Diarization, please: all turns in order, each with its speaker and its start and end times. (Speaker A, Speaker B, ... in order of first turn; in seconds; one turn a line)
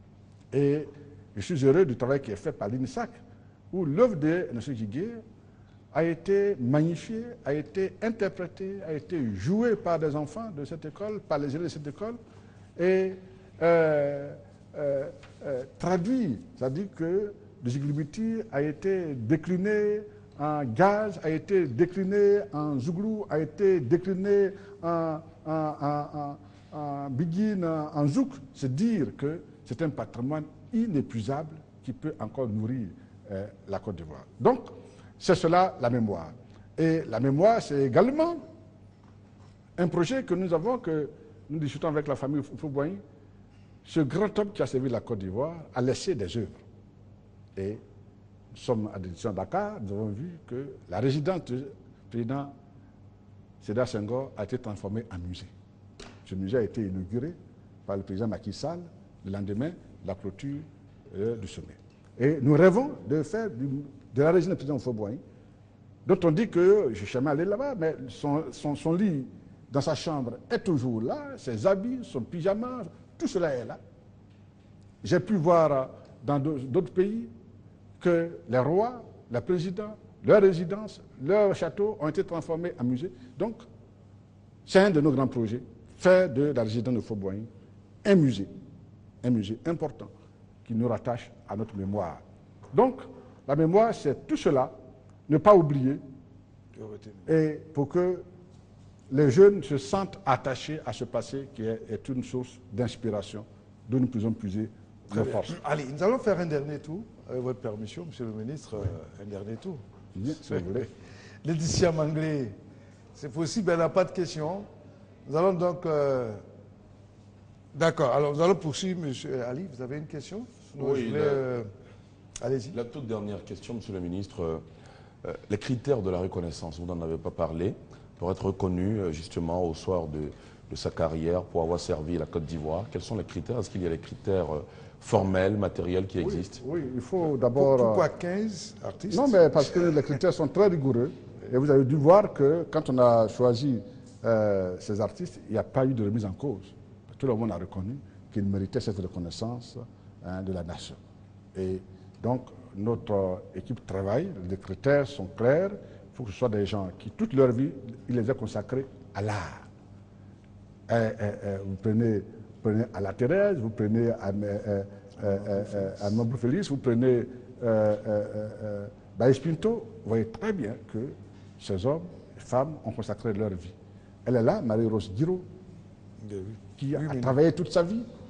Speaker A: 0.5-3.2
Speaker A: 3.7-5.2
Speaker A: 5.9-12.2
Speaker A: 12.8-38.4
Speaker A: 39.8-43.0
Speaker A: 43.8-46.6
Speaker A: 47.5-47.8
Speaker A: 48.5-52.5
Speaker A: 53.6-55.5
Speaker A: 56.2-65.2
Speaker A: 66.0-73.8
Speaker A: 75.0-77.3
Speaker A: 78.0-83.6
Speaker A: 84.7-87.5
Speaker A: 88.0-88.5
Speaker A: 89.2-90.1
Speaker A: 90.7-92.2
Speaker A: 92.7-94.8
Speaker A: 95.3-96.0
Speaker B: 96.8-97.3
Speaker A: 97.3-98.3
Speaker A: 99.1-105.5
Speaker B: 105.1-109.8
Speaker A: 110.2-110.9
Speaker B: 110.5-112.6
Speaker B: 113.2-114.7
Speaker B: 115.2-116.4
Speaker B: 117.7-121.7
Speaker C: 120.8-121.5
Speaker B: 122.4-122.8
Speaker C: 122.7-124.7
Speaker C: 125.2-136.6
Speaker A: 136.2-138.1
Speaker B: 137.6-139.4
Speaker A: 139.1-151.0
Speaker A: 151.6-159.7
Speaker A: 160.9-175.5
Speaker B: 176.2-177.3
Speaker A: 176.8-178.1